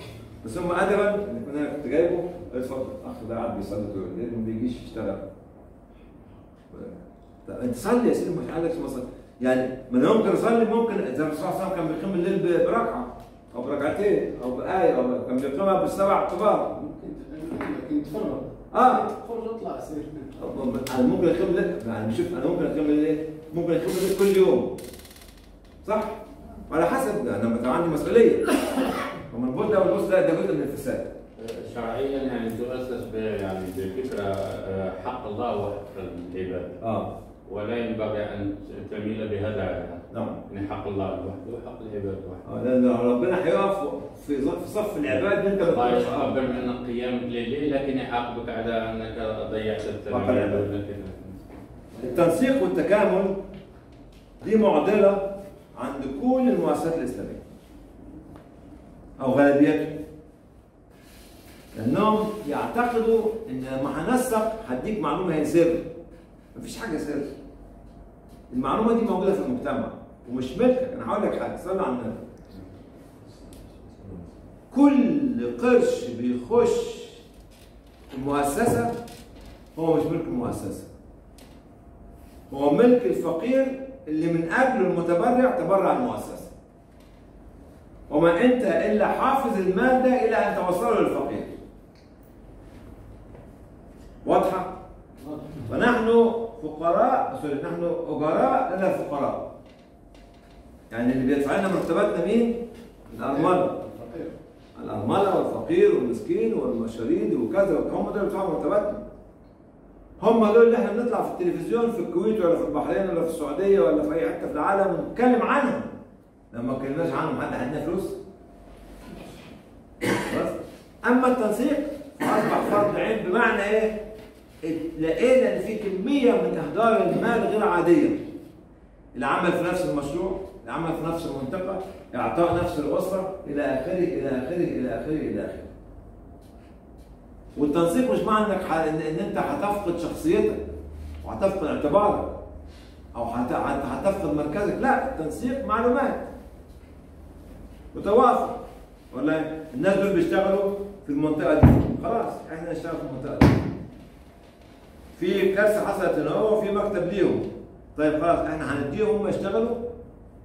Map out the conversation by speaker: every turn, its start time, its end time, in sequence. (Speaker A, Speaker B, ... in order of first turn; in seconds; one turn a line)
Speaker A: 0.4-5.3
Speaker A: 6.7-16.7
Speaker B: 16.7-20.3
Speaker A: 18.7-19.1
Speaker A: 20.4-24.8
Speaker A: 25.8-26.2
Speaker A: 26.7-28.6
Speaker A: 29.2-31.1
Speaker C: 31.4-36.8
Speaker A: 36.8-37.1
Speaker C: 37.5-42.4
Speaker A: 40.1-40.4
Speaker A: 42.4-46.5
Speaker C: 45.6-51.4
Speaker A: 50.1-50.6
Speaker A: 52.0-53.4
Speaker A: 54.4-57.4
Speaker A: 59.2-60.0
Speaker A: 61.7-65.9
Speaker A: 66.5-67.3
Speaker A: 68.5-72.2
Speaker A: 74.7-77.2
Speaker A: 78.1-78.9
Speaker A: 79.8-80.9
Speaker A: 82.5-86.5
Speaker A: 88.1-91.5
Speaker A: 94.2-94.8
Speaker A: 95.7-99.5
Speaker A: 100.9-103.8
Speaker B: 103.3-104.3
Speaker A: 104.8-109.0
Speaker A: 110.2-115.9
Speaker A: 116.5-118.2
Speaker A: 120.2-124.0
Speaker A: 124.6-128.2
Speaker A: 129.2-135.7
Speaker A: 137.6-140.6
Speaker A: 141.2-142.4
Speaker A: 143.1-146.3
Speaker A: 147.9-148.6
Speaker A: 149.1-153.7
Speaker A: 155.2-159.9